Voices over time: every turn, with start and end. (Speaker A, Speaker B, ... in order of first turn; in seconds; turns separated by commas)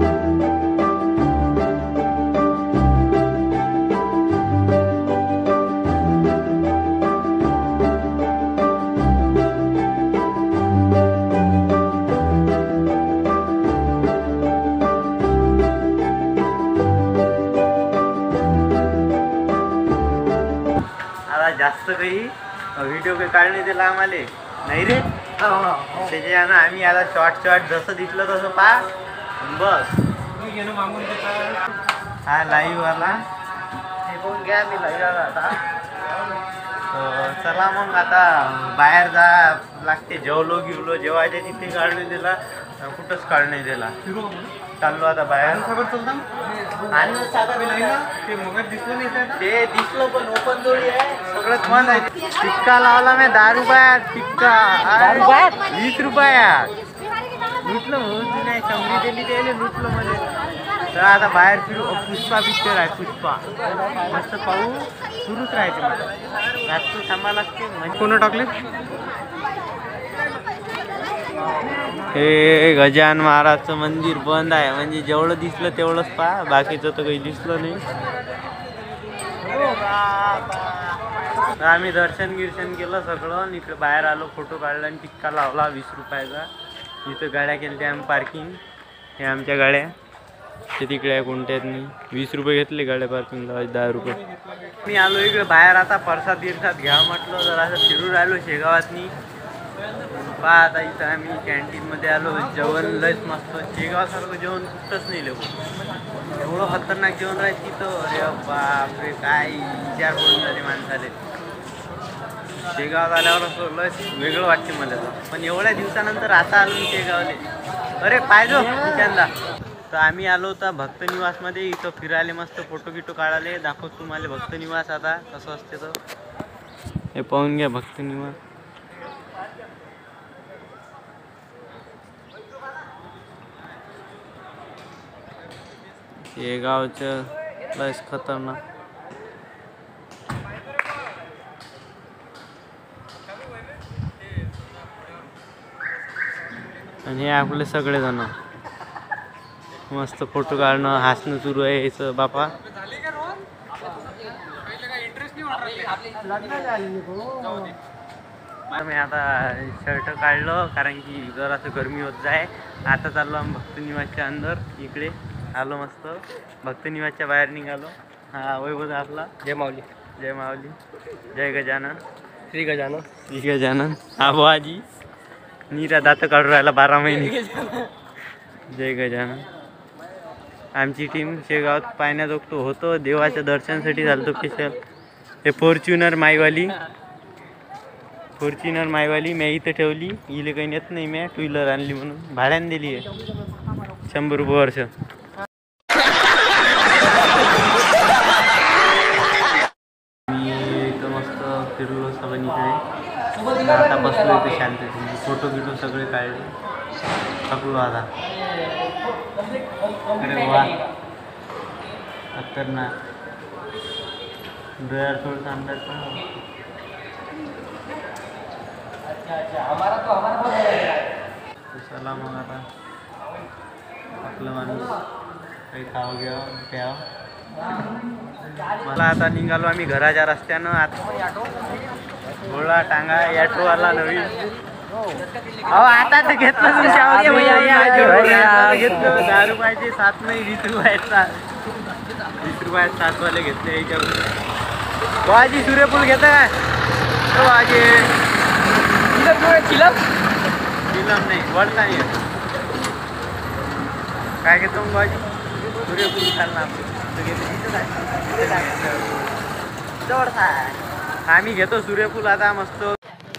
Speaker A: 21.3-28.9, Speaker A: 29.4-30.0, Speaker A: 31.1-31.5, Speaker A: 32.3-33.2, Speaker A: 34.1-35.6, Speaker A: 36.9-44.0, Speaker A: 44.8-46.2, Speaker B: 45.9-46.2, Speaker A: 46.8-56.7, Speaker B: 48.5-49.1, Speaker A: 57.6-60.3, Speaker A: 60.9-68.6, Speaker A: 72.1-77.8, Speaker A: 79.4-81.0, Speaker A: 81.6-86.5, Speaker A: 87.0-88.6, Speaker A: 89.2-89.9, Speaker A: 90.8-99.1, Speaker A: 100.0-105.6, Speaker A: 106.3-111.2, Speaker A: 112.6-117.4, Speaker A: 118.0-119.3, Speaker A: 119.9-126.0, Speaker A: 127.2-128.4, Speaker A: 136.3-138.6, Speaker A: 147.1-148.3, Speaker A: 149.9-152.5, Speaker B: 155.7-157.6, Speaker A: 158.7-169.3, Speaker B: 169.4-169.9, Speaker A: 170.2-170.8, Speaker A: 171.3-172.0, Speaker B: 172.5-173.1, Speaker A: 173.2-174.8, Speaker A: 175.7-177.9, Speaker A: 178.7-179.5, Speaker A: 180.8-184.8, Speaker A: 185.4-186.8, Speaker A: 188.4-193.1, Speaker A: 194.1-194.9, Speaker A: 200.3-202.8, Speaker A: 203.4-206.5, Speaker A: 207.5-208.1, Speaker A: 210.1-210.9, Speaker A: 212.4-212.9, Speaker A: 214.8-216.3, Speaker B: 219.3-220.6, Speaker A: 221.7-222.6, Speaker A: 224.2-225.0, Speaker A: 225.7-227.0, Speaker A: 228.8-231.3, Speaker A: 232.4-234.5, Speaker A: 235.6-241.5, Speaker A: 242.2-244.3, Speaker A: 245.2-246.6, Speaker A: 247.3-248.1, Speaker B: 249.2-250.0, Speaker A: 250.9-252.2, Speaker A: 254.4-259.2, Speaker A: 260.1-263.0